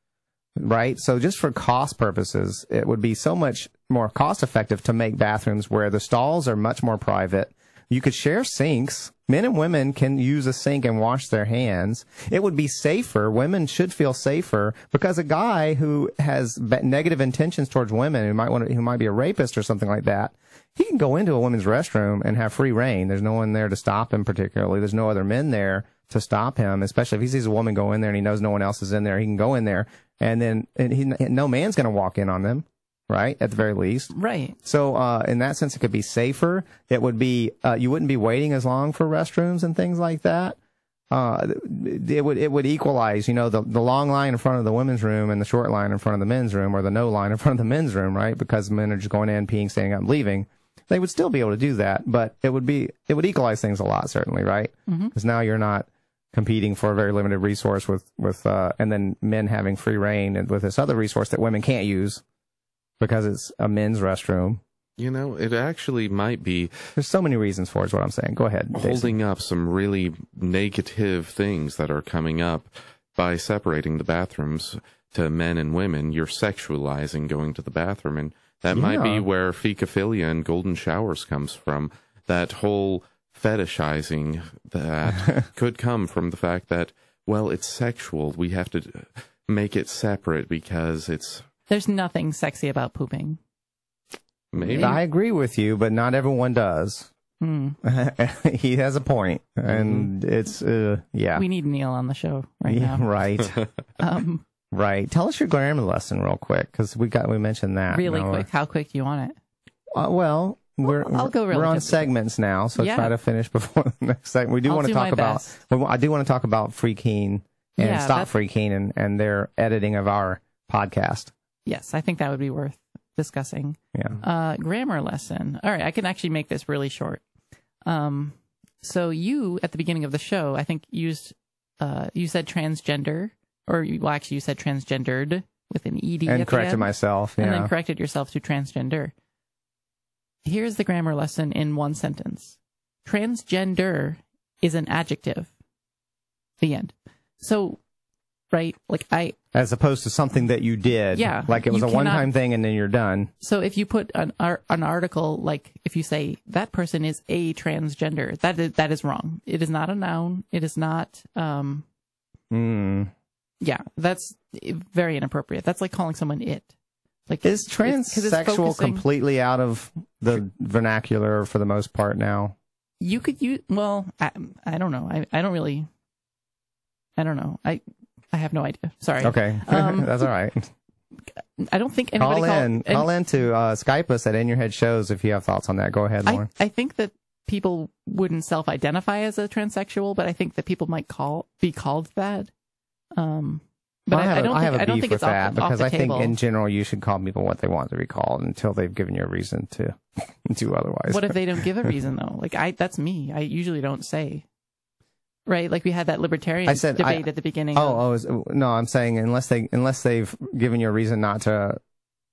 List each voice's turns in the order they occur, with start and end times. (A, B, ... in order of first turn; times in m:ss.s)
0:00.6-0:34.1 A
0:34.1-0:34.6 B
0:34.6-0:40.6 A
0:41.1-1:02.2 A
0:54.9-0:55.2 B
1:03.0-1:04.6 A
1:05.0-1:06.9 C
1:07.0-1:09.1 A
1:08.7-1:31.5 C
1:18.7-1:19.3 A
1:31.7-1:33.4 B
1:34.5-1:35.0 C
1:34.7-1:35.0 B
1:34.7-1:37.1 A
1:37.4-1:37.8 B
1:37.8-1:41.5 A
1:39.7-1:40.1 C
1:41.4-1:43.1 B
1:42.7-1:43.6 A
1:44.0-1:44.4 B
1:44.7-1:48.5 A
1:47.9-1:49.4 B
1:49.9-2:01.3 A
1:50.9-1:52.1 B
1:52.8-1:53.1 B
1:54.7-1:55.6 B
1:57.8-1:58.3 B
2:01.7-2:07.2 B
2:07.8-2:19.1 B
2:16.3-2:17.7 A
2:20.4-2:25.5 B
2:26.6-2:27.8 B
2:28.5-2:29.4 B
2:29.5-2:33.3 A
2:31.1-2:32.3 B
2:33.4-2:41.8 B
2:42.5-2:43.1 A
2:43.6-2:46.7 B
2:47.3-2:49.1 B
2:47.4-2:52.6 A
2:53.0-2:55.9 B
2:57.2-3:00.3 B
2:59.2-3:00.7 A
3:01.4-3:03.2 B
3:02.2-3:06.5 A
3:06.2-3:12.5 B
3:13.2-3:16.4 B
3:14.1-3:21.9 A
3:21.1-3:24.4 B
3:25.5-3:28.0 B
3:26.7-3:31.8 A